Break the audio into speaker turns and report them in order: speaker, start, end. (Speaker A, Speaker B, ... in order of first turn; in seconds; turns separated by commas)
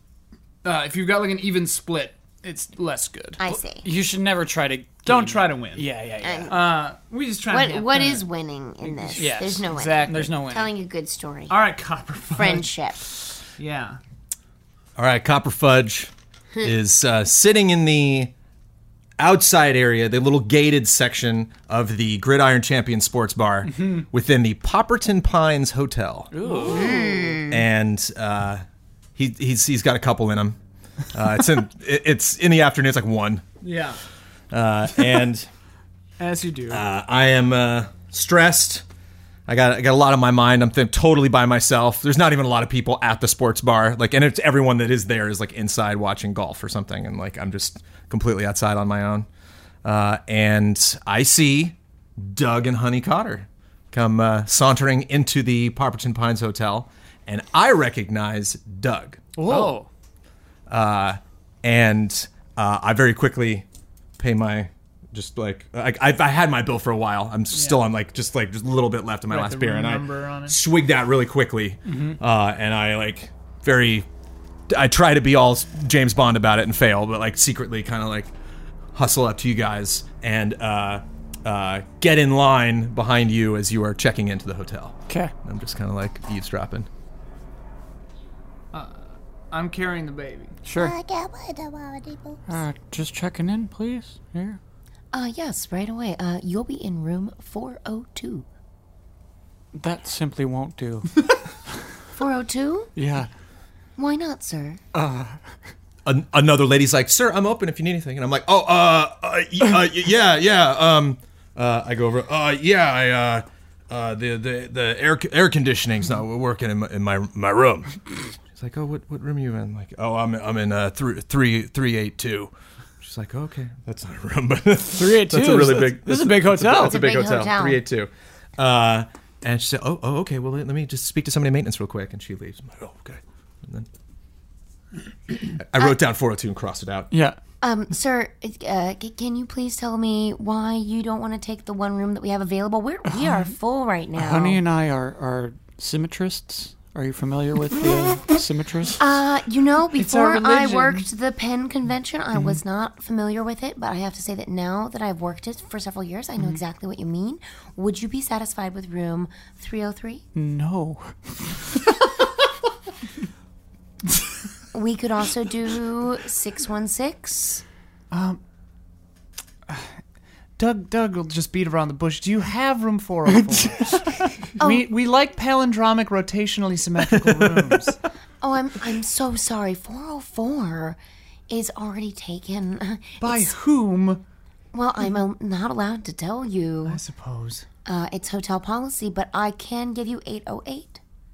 Speaker A: 0.6-3.4, Speaker B: 3.4-3.9, Speaker C: 3.8-6.5, Speaker A: 5.0-5.9, Speaker B: 6.2-6.6, Speaker A: 6.5-8.2, Speaker B: 7.5-11.5, Speaker A: 8.8-10.3, Speaker C: 9.1-10.7, Speaker A: 11.5-12.7, Speaker B: 12.3-13.0, Speaker A: 13.6-14.0, Speaker D: 14.9-18.3, Speaker D: 19.2-26.3, Speaker C: 26.3-27.2, Speaker A: 26.4-27.3, Speaker B: 26.6-27.6, Speaker D: 27.5-28.6, Speaker D: 29.1-30.6, Speaker D: 31.1-33.4, Speaker A: 33.6-34.0, Speaker D: 34.5-35.5, Speaker A: 36.2-36.8, Speaker D: 36.7-38.8, Speaker D: 39.5-49.3, Speaker D: 49.8-59.3, Speaker A: 59.4-59.9, Speaker C: 59.4-59.8, Speaker D: 60.7-63.6, Speaker D: 64.2-74.0, Speaker A: 67.5-67.8, Speaker A: 69.3-70.6, Speaker C: 71.9-72.2, Speaker D: 74.7-78.3, Speaker D: 78.9-86.9, Speaker C: 85.1-85.3, Speaker A: 88.7-90.5, Speaker C: 90.6-90.9, Speaker B: 90.7-92.4, Speaker C: 92.5-94.6, Speaker B: 95.1-98.5, Speaker C: 99.7-101.3, Speaker B: 102.1-102.9, Speaker C: 103.0-103.3, Speaker B: 104.0-104.8, Speaker C: 104.9-105.4, Speaker D: 106.0-118.0, Speaker D: 118.5-133.9, Speaker C: 124.9-127.0, Speaker B: 126.8-127.8, Speaker D: 135.5-137.1, Speaker C: 137.1-137.4, Speaker B: 137.6-144.6, Speaker C: 143.1-143.5, Speaker C: 144.1-149.0, Speaker B: 149.0-160.2, Speaker A: 149.9-151.1, Speaker C: 160.3-161.8, Speaker B: 164.7-167.6, Speaker A: 168.1-168.4, Speaker A: 170.6-178.0, Speaker B: 174.6-174.8, Speaker B: 178.4-183.5, Speaker A: 183.2-184.2, Speaker B: 184.7-187.0, Speaker A: 186.8-187.7, Speaker B: 187.8-191.0